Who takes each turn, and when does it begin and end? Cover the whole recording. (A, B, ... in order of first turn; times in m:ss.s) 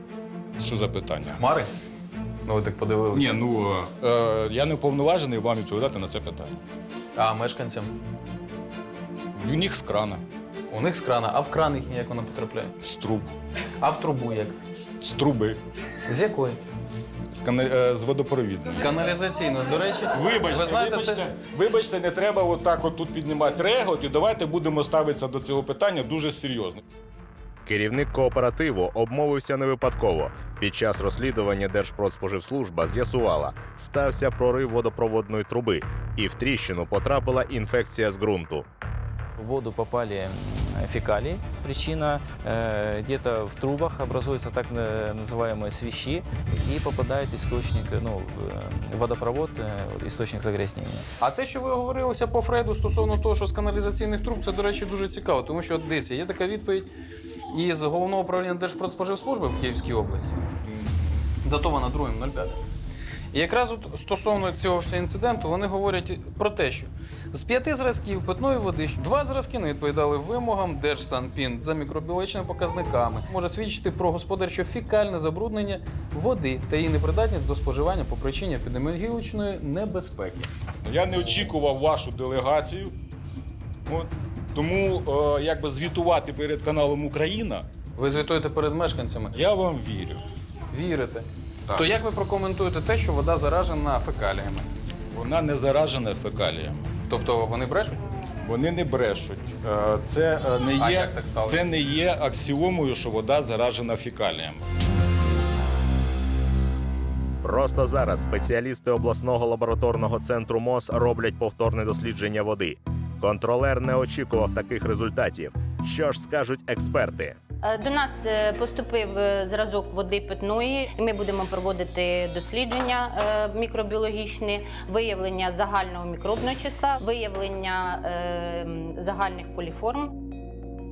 0:00.6-0:01.4 A
0:01.4-0:01.7 B
0:02.4-0:03.4 B
0:03.1-0:06.6 A
0:07.2-0:07.9 B
0:09.4-0:10.2 A
0:10.7-0:12.8 B
0:12.8-0:13.3 A
0:13.8-0:14.6 B
0:15.0-0:15.6 A
0:16.1-0:16.6 B
0:17.3-0:18.8 A
0:18.7-0:21.2 B
0:20.1-0:26.8 A
0:27.7-0:38.7 C
0:39.4-0:51.1 D
0:51.2-0:56.9 B
0:57.5-1:00.4 B
1:00.7-1:01.2 A
1:01.4-1:02.6 B
1:03.3-1:20.5 B
1:20.8-1:22.9 A
1:21.2-1:21.5 B
1:23.9-1:27.7 A
1:28.0-1:29.4 B
1:29.3-1:30.2 A
1:30.7-1:34.7 B
1:35.1-1:36.9 A
1:37.1-1:38.0 B
1:38.4-1:44.7 A
1:40.8-1:41.6 B
1:47.4-1:57.4 C
1:57.6-2:10.1 E